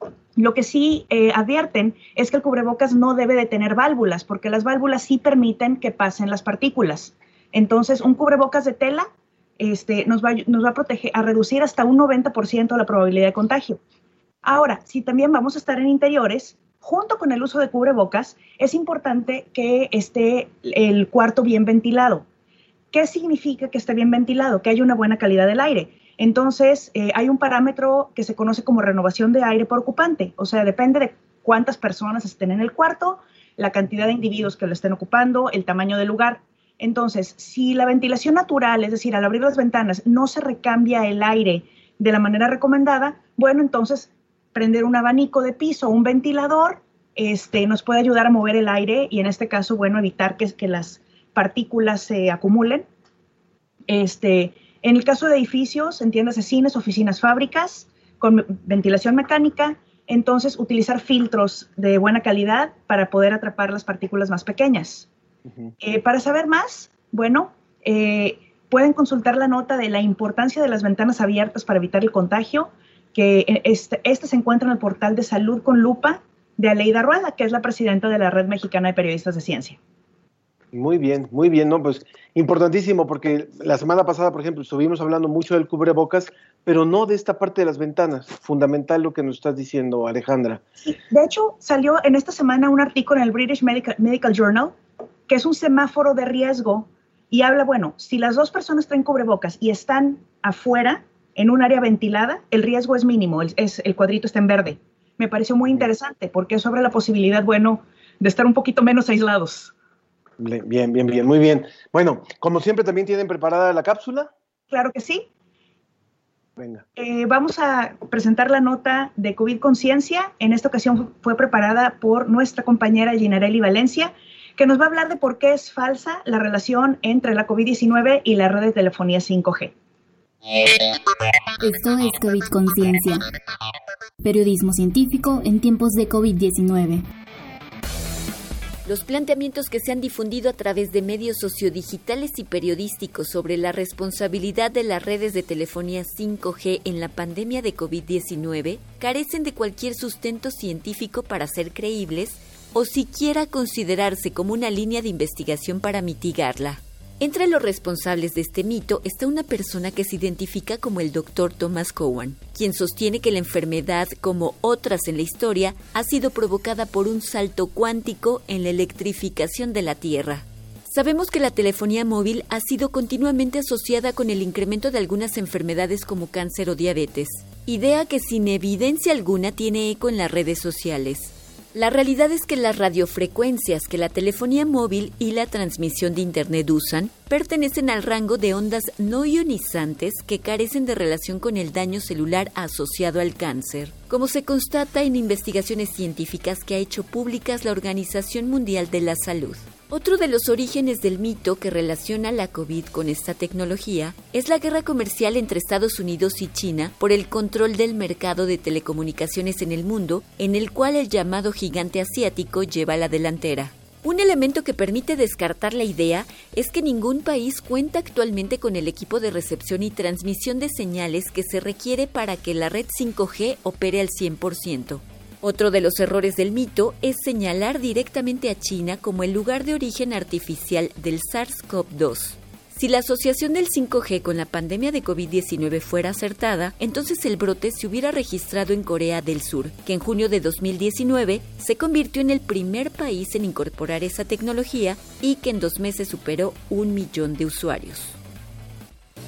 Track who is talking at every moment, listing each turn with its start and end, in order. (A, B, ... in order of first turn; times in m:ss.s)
0:00.4-0:13.8 A
0:14.4-0:22.2 A
0:22.9-0:52.8 A
0:53.9-1:05.1 A
1:05.5-1:05.7 B
1:05.8-1:19.8 A
1:20.7-1:30.6 B
1:30.8-1:34.7 A
1:35.3-1:49.7 A
1:50.4-1:54.3 B
1:54.7-1:55.2 A
1:56.6-1:56.8 B
1:57.0-2:09.7 A
2:11.6-2:13.3 C
2:14.2-2:17.0 C
2:18.8-4:08.2 D